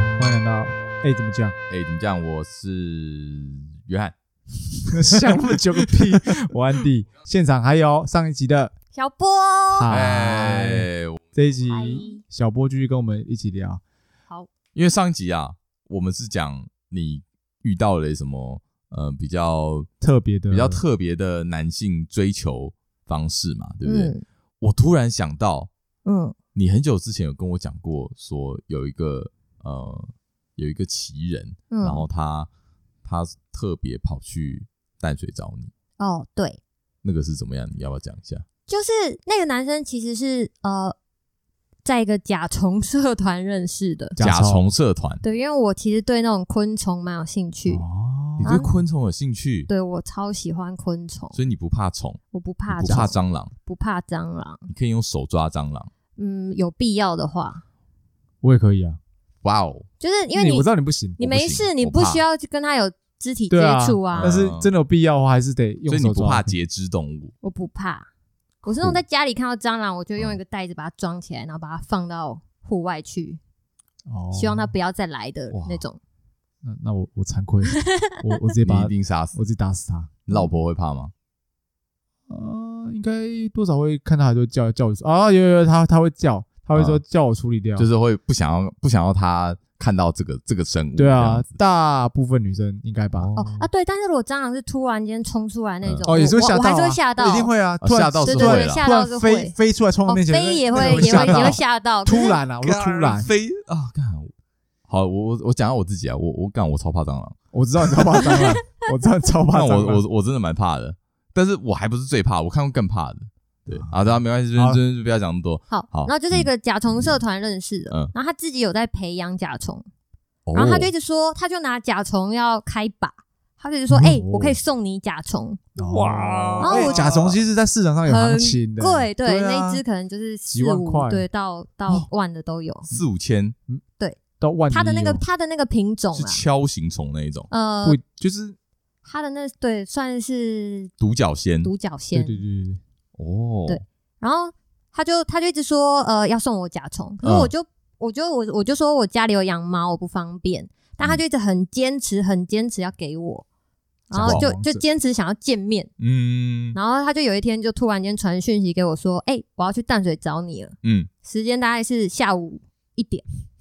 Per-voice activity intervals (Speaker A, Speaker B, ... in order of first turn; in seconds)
Speaker A: 0.2-1.5, 4.9-8.7, 9.7-13.8, 20.0-20.8, 44.1-44.6, 47.7-48.6, 58.4-59.0, 60.3-61.2, 63.5-66.5, 74.1-74.7, 76.6-80.2, 82.3-87.9, 91.0-93.6, 96.1-103.3, 107.5-110.0, 123.9-124.6, 125.8-129.8, 130.5-131.2, 134.4-135.2, 137.8-138.6, 142.1-142.8, 154.1-154.8
Speaker B: 1.7-4.1, 4.8-6.2, 9.9-11.2, 14.7-19.9, 20.5-25.7, 26.5-32.5, 33.0-35.7, 37.0-38.4, 44.2-45.2, 48.4-49.7, 51.3-53.5, 54.7-55.9, 59.4-59.9, 61.2-62.2, 64.1-64.7, 65.9-67.3, 75.5-75.8, 78.6-79.3, 80.3-81.1, 86.7-87.0, 87.8-91.6, 93.1-93.5, 97.8-98.8, 100.7-101.5, 102.6-104.3, 104.9-108.5, 109.5-117.1, 120.5-120.9, 125.9-127.4, 132.9-133.5, 136.1-137.5, 141.0-141.7, 143.2-143.8, 147.2-147.5, 154.2-154.4, 156.0-156.8, 160.8-161.1
Speaker C: 8.9-9.9, 11.7-12.2, 23.8-24.2, 26.1-26.3, 31.7-32.0, 36.0-36.6, 38.7-40.9, 41.8-44.1, 45.2-47.8, 48.4-48.7, 49.7-51.4, 52.3-54.6, 56.1-57.6, 60.0-60.6, 61.2-64.3, 67.4-68.1, 68.6-73.4, 74.3-76.0, 77.7-78.2, 93.4-97.5, 98.2-99.5, 100.0-102.4, 115.7-119.8, 120.5-125.6, 126.6-127.1, 128.0-132.9, 134.7-136.4, 137.5-138.0, 139.0-140.9, 141.6-142.4, 143.7-153.4, 154.1-155.9, 156.7-163.2